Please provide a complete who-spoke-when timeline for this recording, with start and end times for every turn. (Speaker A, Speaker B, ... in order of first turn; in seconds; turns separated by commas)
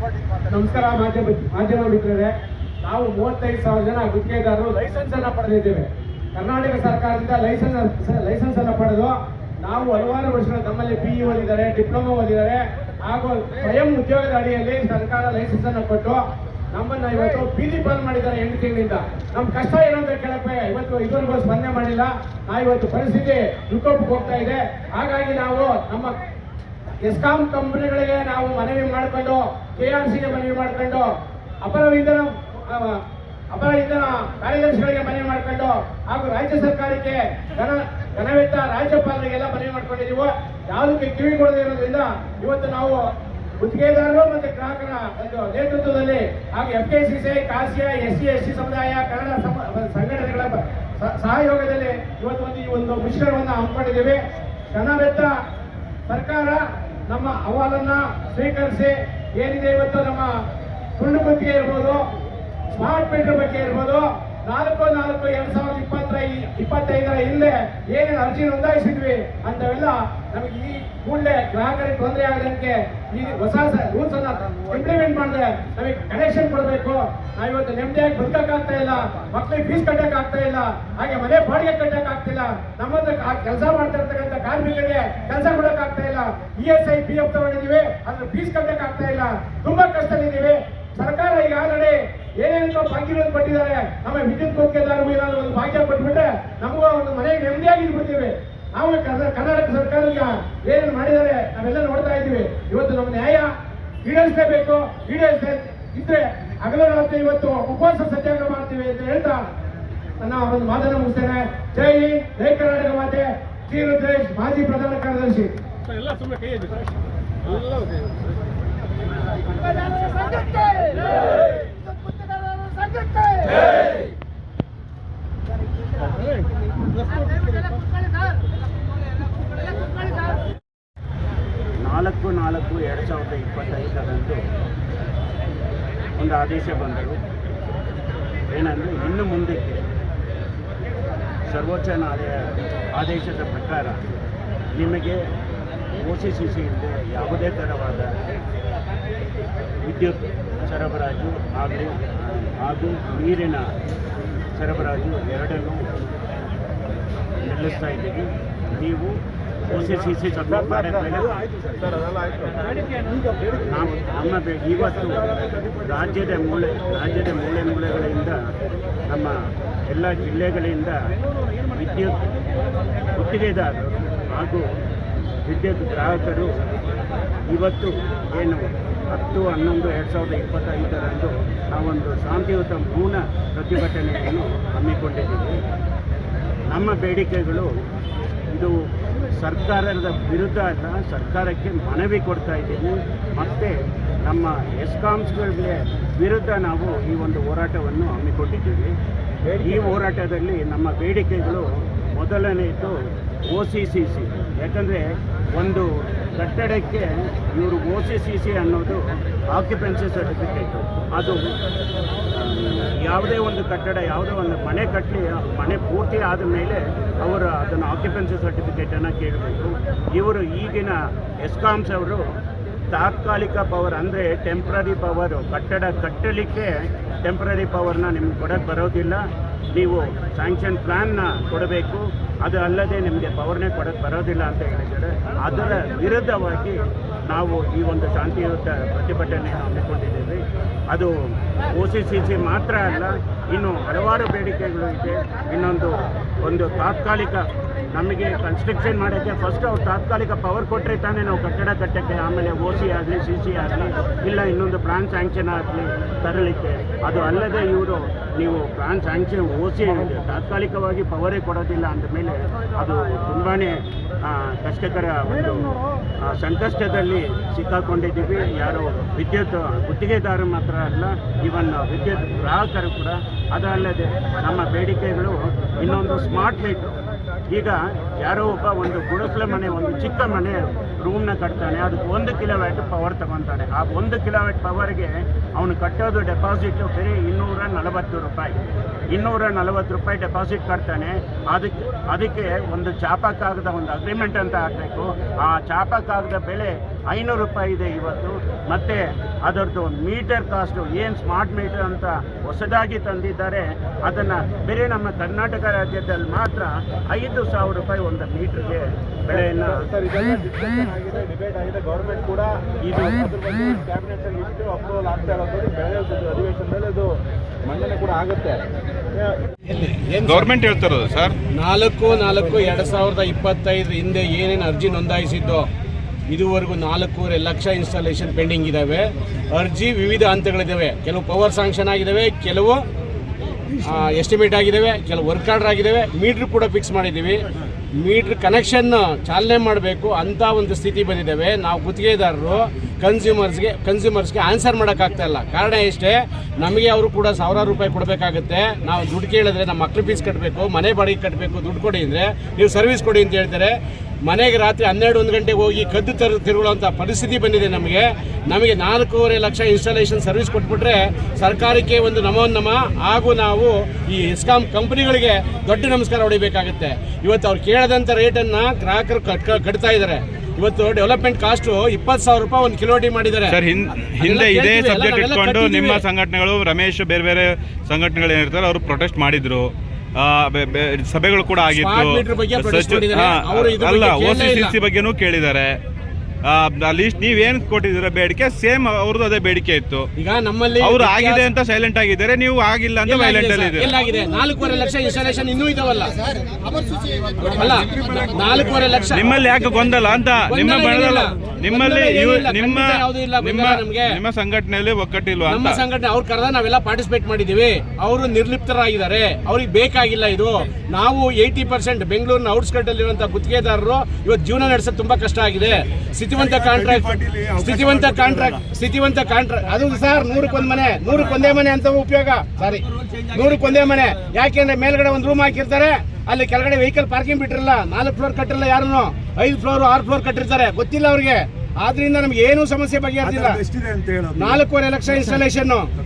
Speaker A: 0.4-26.2, Speaker A: 27.0-31.1, Speaker A: 31.6-43.1, Speaker A: 43.6-54.2, Speaker A: 54.7-55.3, Speaker A: 56.1-60.3, Speaker A: 61.0-62.0, Speaker A: 62.7-103.5, Speaker A: 104.0-109.4, Speaker A: 110.2-115.5, Speaker B: 131.8-134.4, Speaker B: 136.2-137.2, Speaker B: 138.5-139.8, Speaker B: 141.5-144.0, Speaker B: 144.8-145.2, Speaker B: 146.0-148.1, Speaker B: 149.8-153.7, Speaker B: 154.6-155.9, Speaker B: 157.4-159.2, Speaker B: 159.7-161.4, Speaker B: 163.5-168.4, Speaker B: 169.1-169.3, Speaker B: 169.9-171.0, Speaker B: 171.7-172.3, Speaker B: 173.0-174.7, Speaker B: 175.4-176.6, Speaker B: 177.5-185.6, Speaker B: 186.7-187.7, Speaker B: 189.3-198.9, Speaker B: 199.5-202.9, Speaker B: 203.5-211.5, Speaker B: 212.3-222.2, Speaker B: 222.9-226.7, Speaker B: 227.2-229.2, Speaker B: 229.7-276.9, Speaker B: 277.5-288.6, Speaker B: 289.1-309.8, Speaker C: 309.8-318.7, Speaker B: 312.8-313.8, Speaker D: 319.7-320.5, Speaker E: 320.2-321.4, Speaker D: 321.5-325.7, Speaker D: 326.3-332.8, Speaker D: 333.7-337.4, Speaker D: 338.0-373.6, Speaker E: 373.5-385.8, Speaker D: 374.2-376.1, Speaker D: 381.7-384.8, Speaker E: 386.4-390.1, Speaker D: 390.2-391.5, Speaker E: 390.8-393.9, Speaker D: 393.1-396.4, Speaker D: 397.4-399.4, Speaker E: 399.1-405.8, Speaker D: 400.5-404.1, Speaker D: 405.5-433.6, Speaker C: 416.7-418.2, Speaker C: 433.7-434.6, Speaker D: 434.3-435.9